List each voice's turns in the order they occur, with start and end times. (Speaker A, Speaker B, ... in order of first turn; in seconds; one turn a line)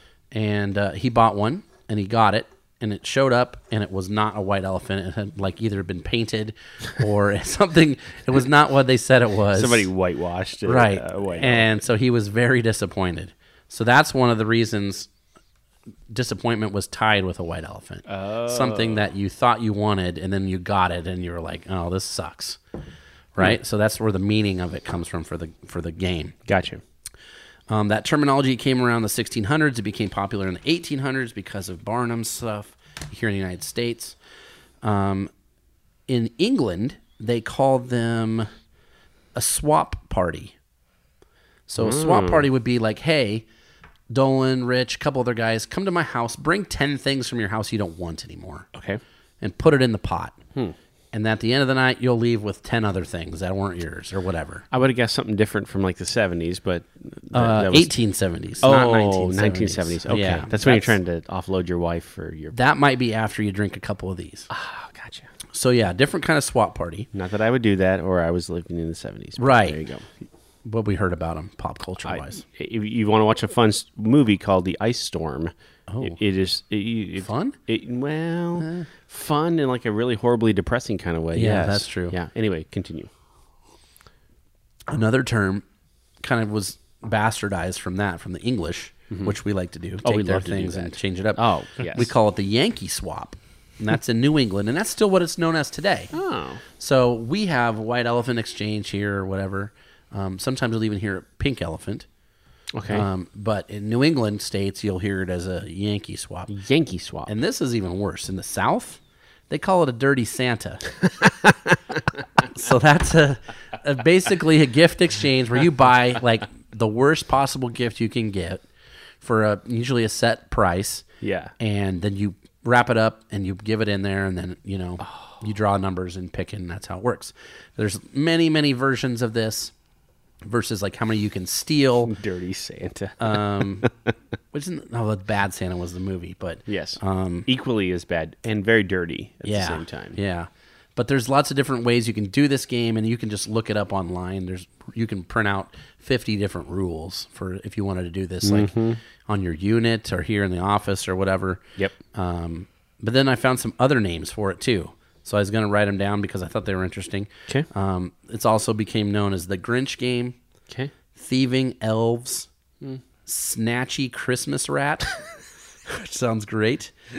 Speaker A: 0.3-9.9
Speaker B: 9.5-11.7
Speaker A: 10.6-15.1
Speaker A: 16.1-22.6
Speaker B: 18.1-19.1
Speaker A: 23.4-26.4
Speaker B: 26.4-26.8
Speaker A: 27.7-34.2
Speaker A: 34.8-35.3
Speaker A: 36.1-38.5
Speaker A: 39.4-40.5
Speaker A: 41.7-43.5
Speaker B: 41.8-42.5
Speaker A: 44.1-48.7
Speaker B: 48.7-49.0
Speaker A: 49.4-50.4
Speaker A: 51.1-54.6
Speaker B: 54.7-57.9
Speaker A: 57.3-61.0
Speaker B: 58.6-62.6
Speaker A: 62.5-64.5
Speaker B: 64.5-65.3
Speaker A: 65.5-67.1
Speaker B: 67.1-70.0
Speaker A: 69.4-69.8
Speaker A: 70.6-72.4
Speaker B: 72.0-83.1
Speaker A: 75.9-76.2
Speaker A: 77.2-77.6
Speaker A: 78.6-78.9
Speaker A: 81.3-82.2
Speaker A: 84.9-85.6
Speaker A: 86.2-96.1
Speaker B: 90.0-92.1
Speaker B: 96.1-96.6
Speaker A: 96.8-102.0
Speaker B: 102.7-103.1
Speaker A: 102.9-106.5
Speaker B: 106.5-107.3
Speaker A: 107.2-110.9
Speaker B: 111.0-112.2
Speaker A: 112.5-118.6
Speaker A: 119.2-121.0
Speaker B: 121.2-121.5
Speaker A: 121.6-129.7
Speaker B: 125.0-125.4
Speaker A: 130.4-132.1
Speaker B: 132.0-134.1
Speaker A: 133.2-133.9
Speaker A: 134.5-137.5
Speaker B: 136.7-140.2
Speaker A: 139.4-160.4
Speaker B: 148.4-149.0
Speaker A: 161.1-162.5
Speaker A: 163.2-165.2
Speaker A: 165.9-166.9